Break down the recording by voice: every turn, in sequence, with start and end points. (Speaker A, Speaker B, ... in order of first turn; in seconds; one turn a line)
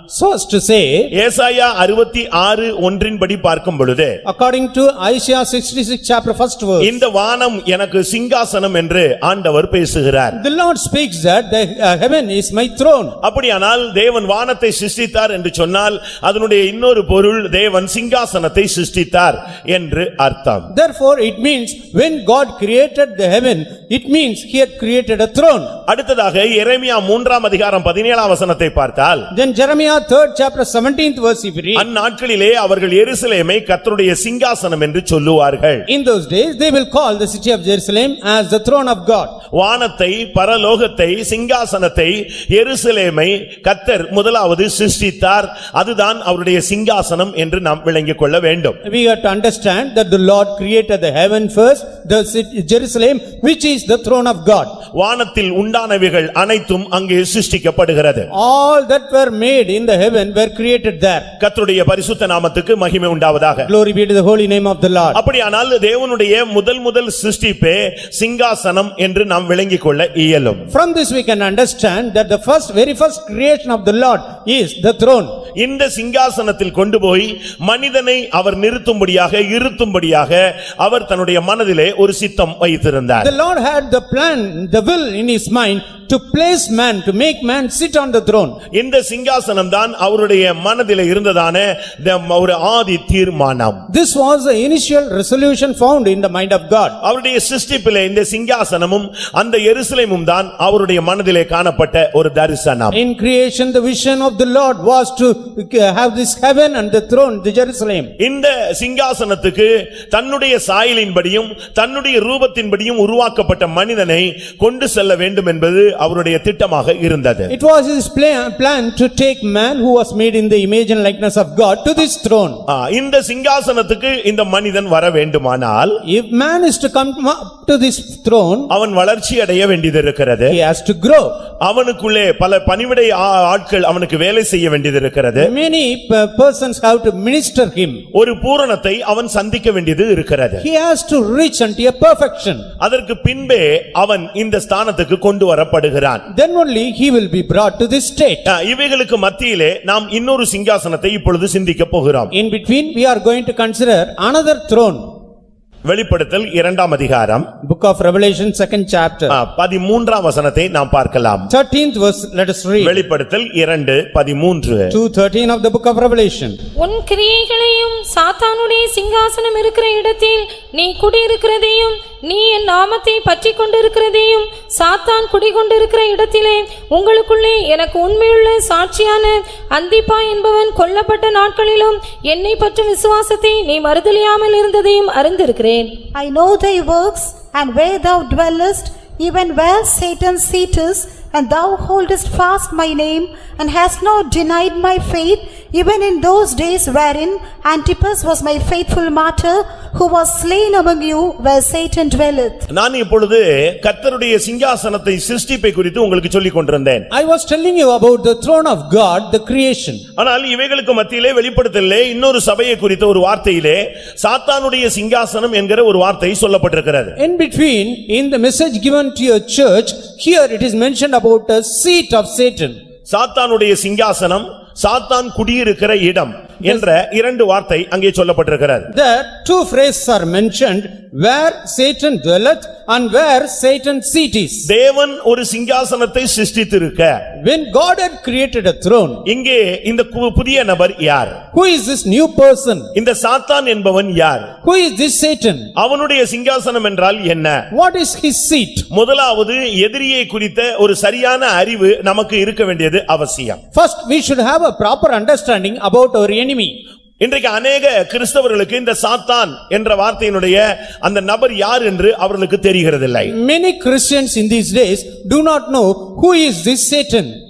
Speaker A: 0.1-1.1
Speaker B: 1.1-4.2
Speaker A: 4.2-7.0
Speaker B: 6.8-10.4
Speaker A: 10.3-13.2
Speaker B: 13.2-20.7
Speaker A: 20.7-25.7
Speaker B: 25.9-29.3
Speaker A: 29.3-31.9
Speaker B: 31.8-35.9
Speaker A: 35.9-39.3
Speaker B: 39.5-48.8
Speaker A: 48.8-54.7
Speaker B: 55.0-58.3
Speaker A: 58.3-61.3
Speaker B: 61.4-63.7
Speaker A: 63.6-65.2
Speaker B: 65.1-70.7
Speaker A: 70.7-75.3
Speaker B: 75.6-83.3
Speaker A: 83.2-88.6
Speaker B: 88.7-93.8
Speaker A: 93.9-97.0
Speaker B: 97.0-103.0
Speaker A: 102.9-108.1
Speaker B: 108.2-117.5
Speaker A: 117.5-122.6
Speaker B: 122.7-126.0
Speaker A: 126.0-128.7
Speaker B: 128.7-130.5
Speaker A: 130.5-131.3
Speaker B: 131.7-135.5
Speaker A: 135.4-138.0
Speaker B: 138.1-140.6
Speaker A: 140.6-142.7
Speaker B: 142.8-146.2
Speaker A: 146.3-148.5
Speaker B: 148.5-152.3
Speaker A: 152.3-155.0
Speaker B: 155.8-157.5
Speaker A: 157.6-159.4
Speaker B: 159.3-161.5
Speaker A: 161.5-163.0
Speaker B: 162.8-164.9
Speaker A: 164.9-166.6
Speaker C: 166.8-185.9
Speaker D: 186.1-202.7
Speaker B: 202.7-207.1
Speaker A: 207.1-210.0
Speaker B: 210.2-217.2
Speaker A: 217.2-222.8
Speaker B: 223.1-228.9
Speaker A: 228.9-234.7
Speaker B: 234.7-237.2
Speaker A: 237.4-239.2
Speaker B: 239.2-241.4
Speaker A: 241.5-242.9
Speaker B: 242.9-244.5
Speaker A: 244.6-245.7
Speaker B: 245.8-247.6
Speaker A: 247.7-248.9
Speaker B: 248.9-253.6
Speaker A: 253.7-256.8
Speaker B: 257.2-263.3
Speaker A: 263.3-267.3